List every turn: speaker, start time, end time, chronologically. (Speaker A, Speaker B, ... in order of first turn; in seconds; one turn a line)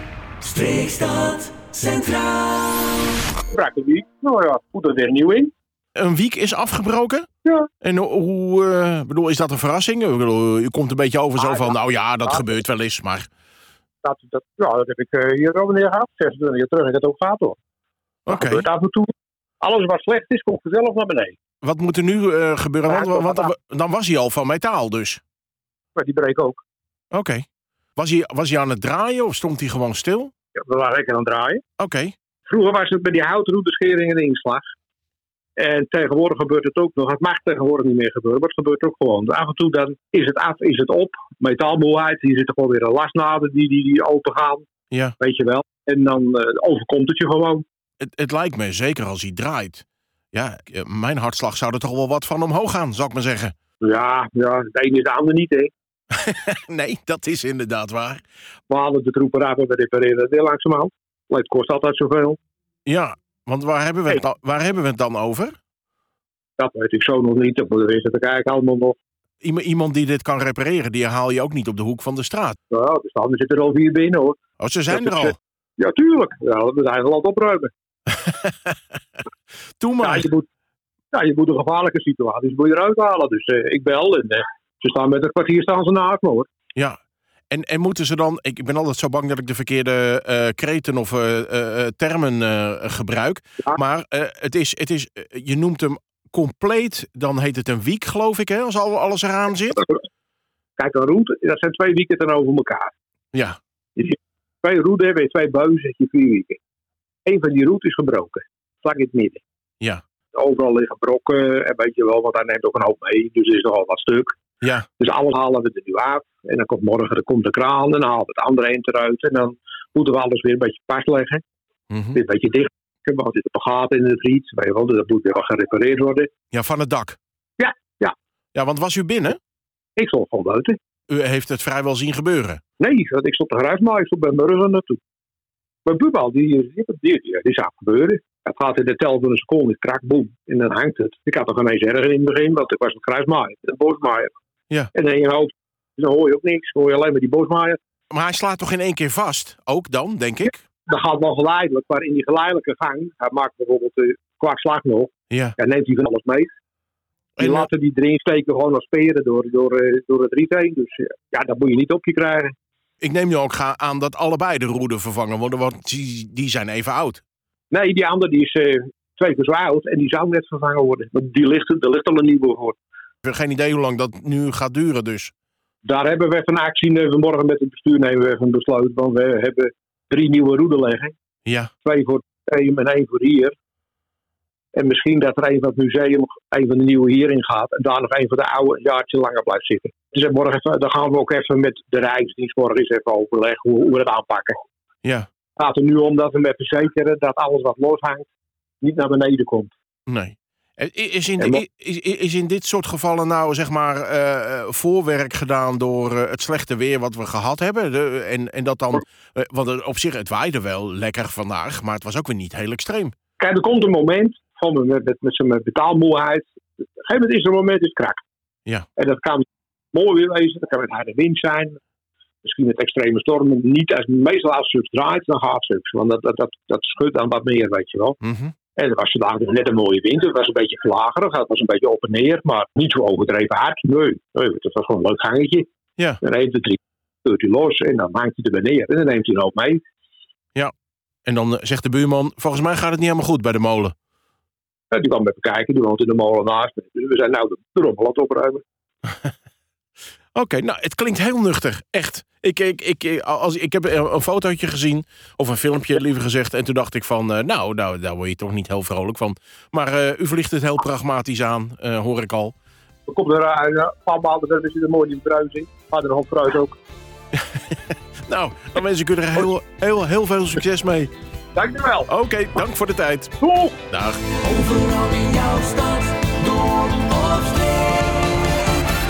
Speaker A: 0.4-3.0
Speaker B: 3.5-5.5
Speaker C: 6.0-7.3
Speaker B: 7.4-7.7
Speaker C: 7.8-13.3
Speaker B: 11.4-12.5
Speaker B: 14.0-17.6
Speaker C: 18.2-18.6
Speaker B: 18.3-19.1
Speaker B: 19.6-21.4
Speaker C: 21.6-25.2
Speaker B: 22.9-23.5
Speaker B: 25.9-26.6
Speaker C: 27.1-27.4
Speaker C: 28.0-30.3
Speaker B: 30.6-31.6
Speaker C: 31.8-32.1
Speaker B: 32.5-34.7
Speaker B: 35.6-44.7
Speaker C: 44.9-45.1
Speaker B: 45.2-47.6
Speaker C: 48.0-53.5
Speaker B: 53.8-55.7
Speaker C: 56.1-58.2
Speaker B: 58.7-62.4
Speaker C: 62.9-65.5
Speaker B: 66.6-69.0
Speaker C: 69.4-72.6
Speaker B: 72.7-74.4
Speaker C: 74.6-75.3
Speaker B: 74.9-77.7
Speaker C: 78.2-78.7
Speaker C: 79.8-80.2
Speaker B: 80.0-80.5
Speaker B: 81.1-86.5
Speaker C: 87.5-99.9
Speaker B: 100.8-102.9
Speaker B: 104.0-106.6
Speaker B: 107.2-109.4
Speaker B: 110.3-114.4
Speaker B: 115.0-121.4
Speaker C: 121.9-122.2
Speaker B: 122.1-126.3
Speaker C: 126.5-127.2
Speaker B: 127.6-128.1
Speaker C: 128.5-129.4
Speaker B: 130.0-130.8
Speaker C: 131.1-132.6
Speaker B: 132.8-135.0
Speaker B: 135.8-144.3
Speaker B: 144.9-147.8
Speaker C: 148.1-150.6
Speaker B: 150.9-156.5
Speaker C: 155.3-155.6
Speaker C: 157.4-157.7
Speaker B: 157.4-162.5
Speaker C: 163.0-167.2
Speaker B: 167.7-172.8
Speaker C: 173.2-175.3
Speaker B: 175.8-181.2
Speaker C: 181.4-181.7
Speaker B: 181.8-183.5
Speaker B: 184.7-194.6
Speaker B: 195.6-198.3
Speaker B: 198.8-199.7
Speaker C: 200.1-213.1
Speaker B: 213.4-218.2
Speaker B: 219.0-221.8
Speaker B: 222.4-228.2
Speaker C: 228.2-228.5
Speaker B: 228.8-235.7
Speaker B: 236.2-239.8
Speaker C: 241.2-243.9
Speaker B: 244.9-248.6
Speaker C: 250.3-262.5
Speaker B: 263.1-266.8
Speaker C: 267.3-271.1
Speaker B: 271.6-272.1
Speaker C: 272.1-273.3
Speaker B: 273.4-273.8
Speaker C: 273.9-274.3
Speaker A: 274.4-278.8